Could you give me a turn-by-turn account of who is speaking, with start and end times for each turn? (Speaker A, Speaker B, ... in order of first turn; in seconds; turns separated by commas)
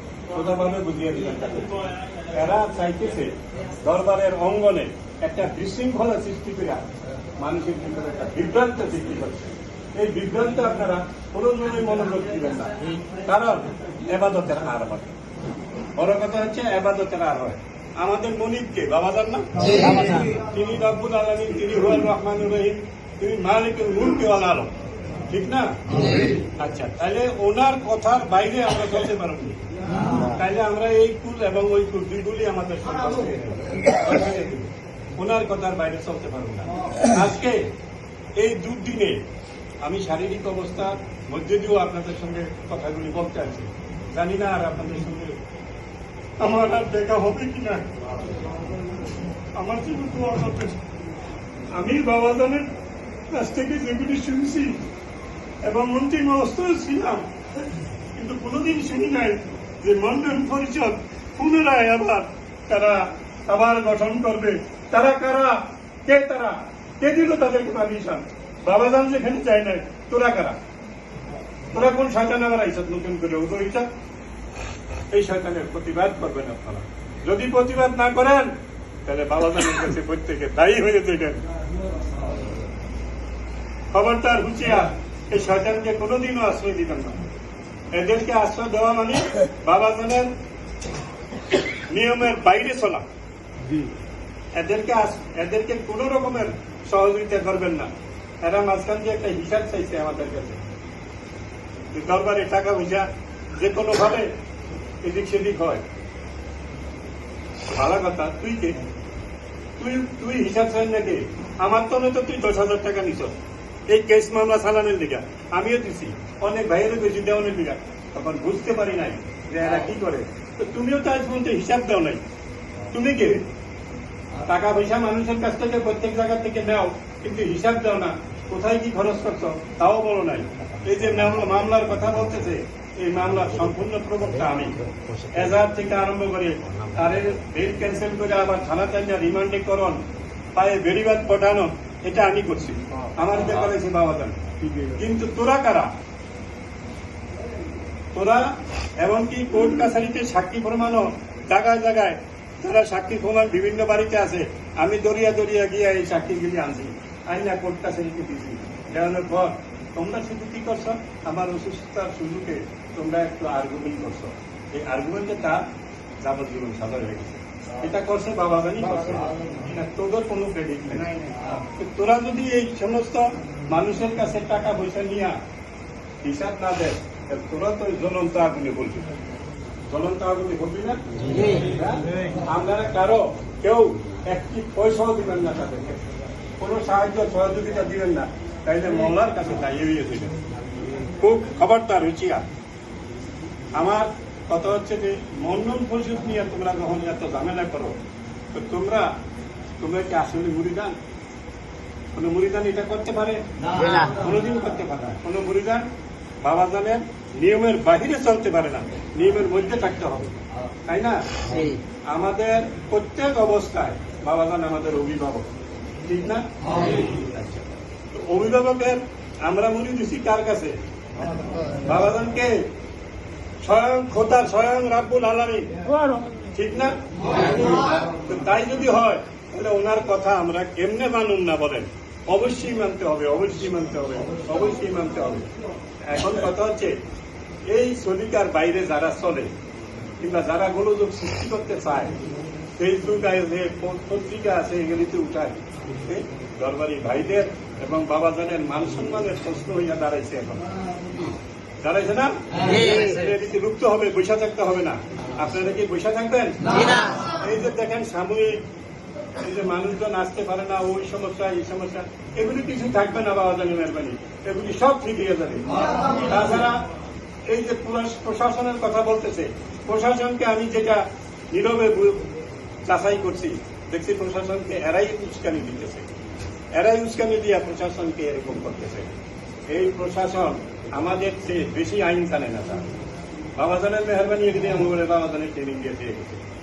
Speaker A: 0.3-1.8, Speaker A: 2.3-6.8, Speaker A: 7.4-15.1, Speaker A: 16.0-24.7, Speaker A: 25.3-25.8, Speaker A: 26.6-29.6, Speaker A: 30.1-37.7, Speaker A: 38.4-39.2, Speaker A: 39.8-45.4, Speaker A: 46.4-47.9, Speaker A: 49.6-50.8, Speaker A: 51.8-52.7, Speaker A: 53.3-54.8, Speaker A: 55.6-57.3, Speaker A: 58.2-70.6, Speaker A: 71.7-73.9, Speaker A: 75.1-78.5, Speaker A: 79.1-81.4, Speaker A: 83.9-87.2, Speaker A: 87.9-90.3, Speaker A: 91.9-93.0, Speaker A: 94.5-97.9, Speaker A: 98.4-100.6, Speaker A: 101.9-104.3, Speaker A: 105.0-105.8, Speaker A: 107.7-108.8, Speaker A: 109.8-113.4, Speaker A: 113.9-122.2, Speaker A: 122.9-123.5, Speaker A: 124.5-134.8, Speaker B: 134.9-135.3, Speaker A: 135.3-140.0, Speaker A: 140.6-145.9, Speaker A: 148.1-165.7, Speaker A: 166.2-175.4, Speaker A: 176.2-179.1, Speaker A: 179.9-186.0, Speaker B: 181.2-181.7, Speaker A: 186.6-190.3, Speaker A: 191.2-192.4, Speaker A: 193.8-198.0, Speaker A: 198.5-199.1, Speaker A: 199.8-201.0, Speaker A: 202.2-203.4, Speaker B: 203.8-204.1, Speaker A: 204.1-205.9, Speaker A: 206.4-211.3, Speaker B: 211.5-211.8, Speaker A: 212.1-215.5, Speaker A: 216.0-217.5, Speaker A: 218.1-220.8, Speaker A: 221.8-222.7, Speaker A: 223.6-225.7, Speaker A: 226.5-235.5, Speaker A: 236.0-237.0, Speaker A: 237.7-239.5, Speaker A: 240.2-242.2, Speaker A: 242.8-250.7, Speaker A: 251.8-258.6, Speaker B: 252.7-253.2, Speaker B: 256.7-257.2, Speaker A: 259.4-266.8, Speaker A: 267.5-272.2, Speaker A: 272.9-276.1, Speaker A: 276.7-279.1, Speaker A: 279.7-282.9, Speaker A: 283.6-286.4